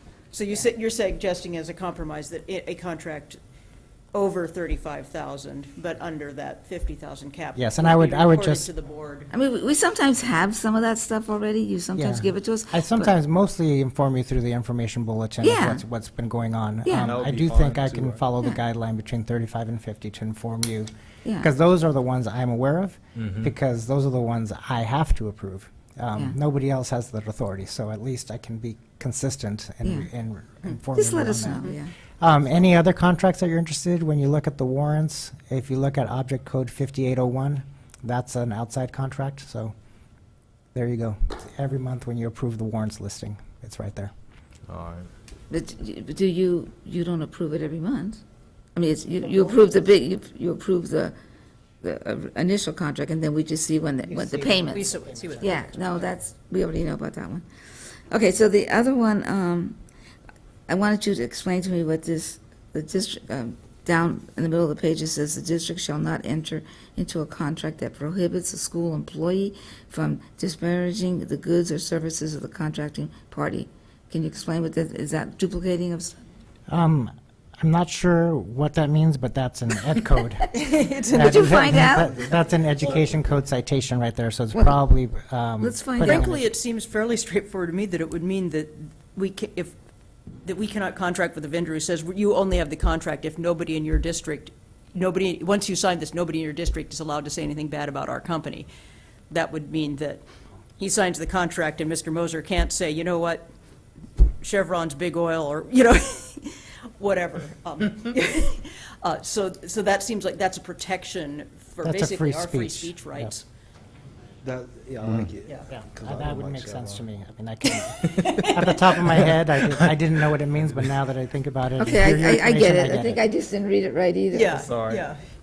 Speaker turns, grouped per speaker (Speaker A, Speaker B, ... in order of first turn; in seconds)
Speaker A: 0.3-3.4, 4.1-9.3, 54.7-55.6, 80.5-81.8, 86.0-89.7, 90.4-98.7, 99.3-100.2, 100.8-103.5, 104.4-113.4, 117.7-119.2, 124.3-125.2
Speaker B: 7.5-8.7, 11.9-39.7, 40.7-44.1, 54.1-56.1, 76.7-80.5, 81.1-86.4, 111.8-113.4, 115.7-123.2
Speaker C: 9.3-13.2, 15.4-15.8, 16.9-17.2, 21.2-21.5, 29.8-30.1, 30.9-31.9, 45.5-48.2, 48.8-51.1, 51.8-57.4, 58.1-59.8, 60.7-76.2, 81.1-82.2, 84.5-84.8, 85.6-86.3, 121.8-124.7
Speaker D: 17.0-18.2, 23.2-23.5, 44.7-45.1, 124.6-125.1
Speaker E: 114.4-117.0